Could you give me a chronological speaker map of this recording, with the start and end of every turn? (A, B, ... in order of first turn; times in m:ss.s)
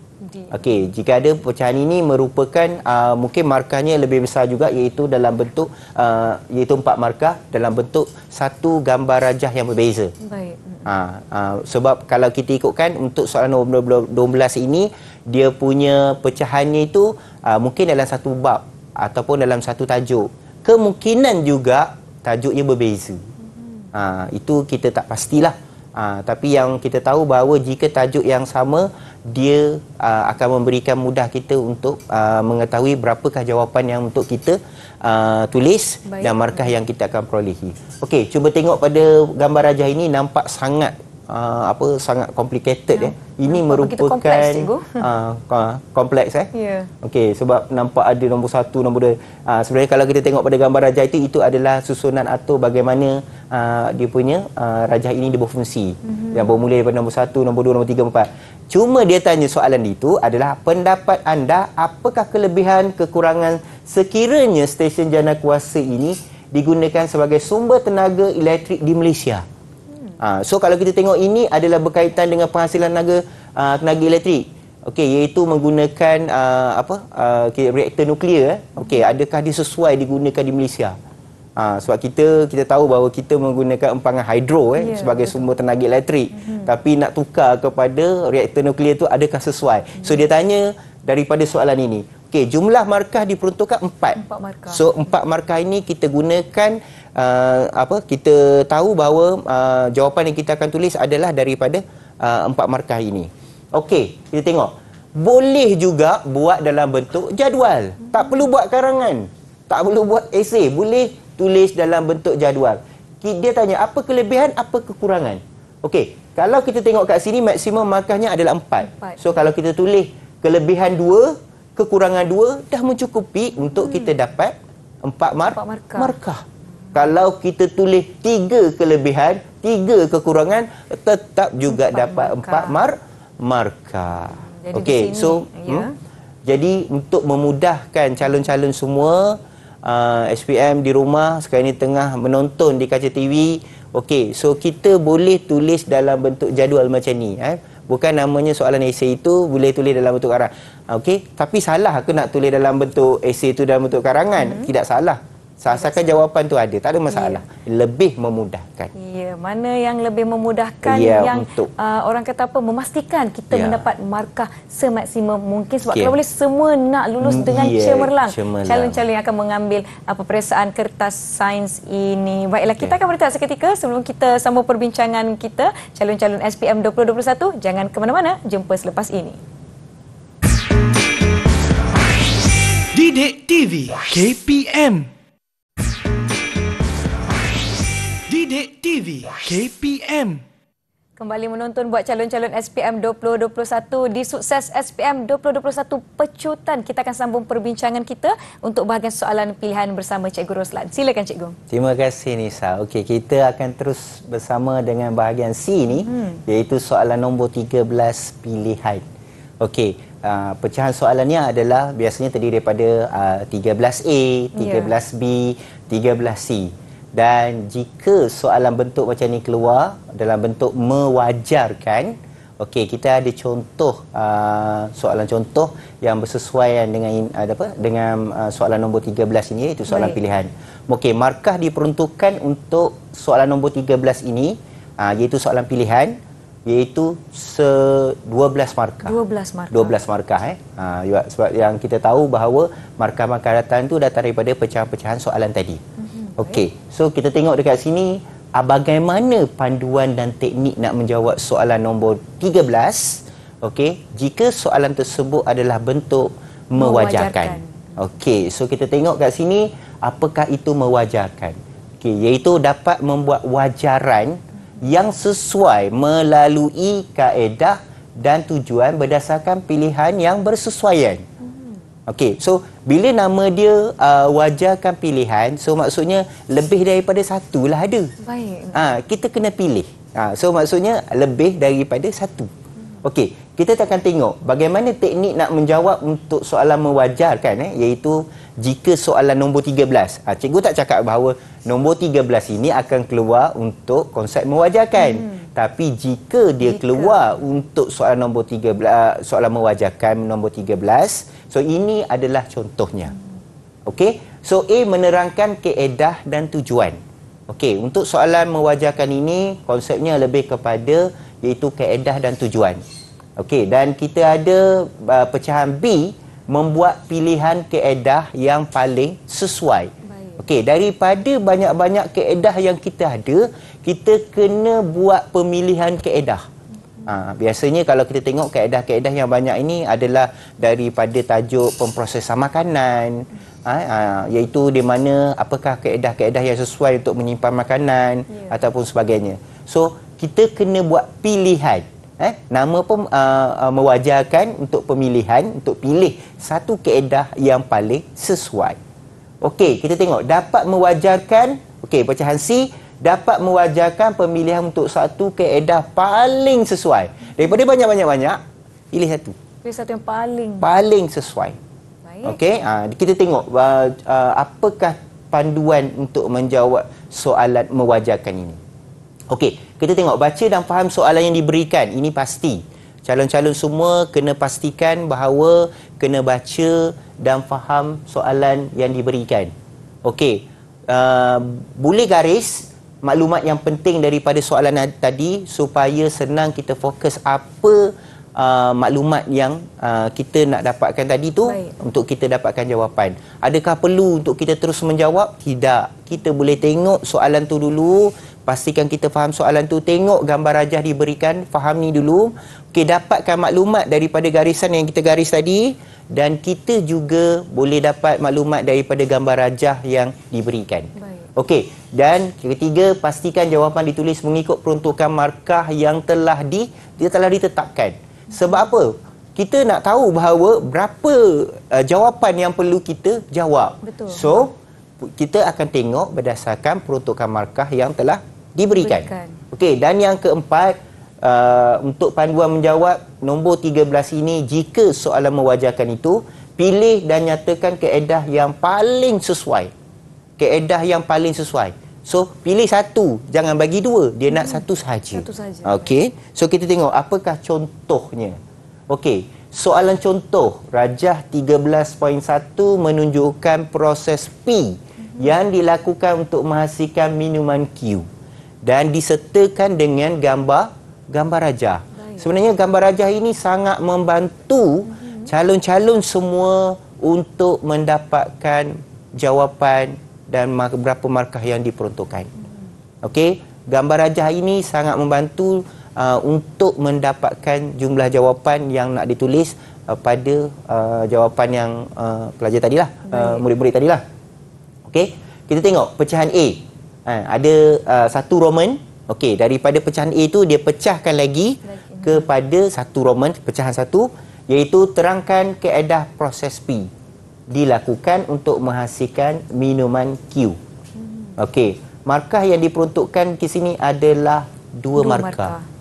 0:00.2-0:00.6 A
0:00.5-0:10.1 B
0:10.2-0:10.9 A
0:10.8-0:23.3 B
0:23.4-0:23.9 A
0:23.9-0:46.5 B
0:36.0-0:36.7 A
0:42.9-0:45.1 A
0:46.5-0:46.9 A
0:47.0-1:09.4 B
0:56.0-0:56.5 A
1:09.9-1:10.2 A
1:10.2-1:21.0 B
1:21.6-2:06.4 B
1:24.8-1:25.5 A
1:26.3-1:26.7 A
1:30.0-1:30.3 A
1:34.2-1:34.9 A
1:58.8-1:59.2 A
2:03.8-2:04.1 A
2:05.5-2:06.1 A
2:06.9-2:15.9 B
2:11.7-2:12.8 A
2:14.4-2:15.9 A
2:16.4-2:38.9 B
2:34.4-2:34.7 A
2:35.7-2:36.2 A
2:37.1-2:37.4 A
2:38.9-2:59.4 A
2:40.8-2:41.7 B
2:43.5-2:43.8 B
2:45.9-2:46.2 B
2:47.2-2:49.0 B
3:02.9-3:05.1 C
3:08.3-3:10.4 C
3:11.2-3:21.6 A
3:21.7-3:29.0 B
3:26.0-3:26.4 A
3:29.6-3:59.2 B
3:34.6-3:35.0 A
3:49.9-3:50.2 A
3:59.0-4:00.0 A
3:59.7-4:05.8 B
4:06.0-4:06.6 A
4:06.4-4:31.2 B
4:16.8-4:18.0 A
4:31.4-4:31.8 A
4:32.1-4:38.1 B
4:38.2-4:38.9 A
4:38.7-4:42.5 B
4:43.0-5:03.1 B
4:54.9-4:55.5 A
4:56.6-4:57.2 A
5:03.8-5:07.0 B
5:07.5-5:12.8 B
5:13.4-5:26.4 B
5:20.0-5:20.4 A
5:27.0-5:48.8 B
5:38.3-5:38.6 A
5:49.4-5:58.4 B
5:58.9-5:59.4 B
5:59.6-6:00.6 A
6:00.6-6:01.6 B
6:02.0-6:02.4 A
6:02.2-6:08.6 B
6:09.3-6:19.5 B
6:20.0-7:19.7 B
6:31.4-6:31.7 A
6:51.0-6:51.3 A
7:03.8-7:04.4 A
7:08.7-7:09.4 A
7:20.4-7:28.4 B
7:24.3-7:25.9 A
7:28.9-7:38.1 B
7:35.0-7:35.3 A
7:38.6-7:52.3 B
7:41.9-7:42.3 A
7:44.9-7:45.3 A
7:53.0-8:04.0 B
8:03.1-8:03.4 A
8:04.9-8:16.9 B
8:11.6-8:12.3 A
8:17.5-8:20.6 B
8:21.0-8:21.3 A
8:21.4-8:25.5 B
8:25.0-8:25.6 A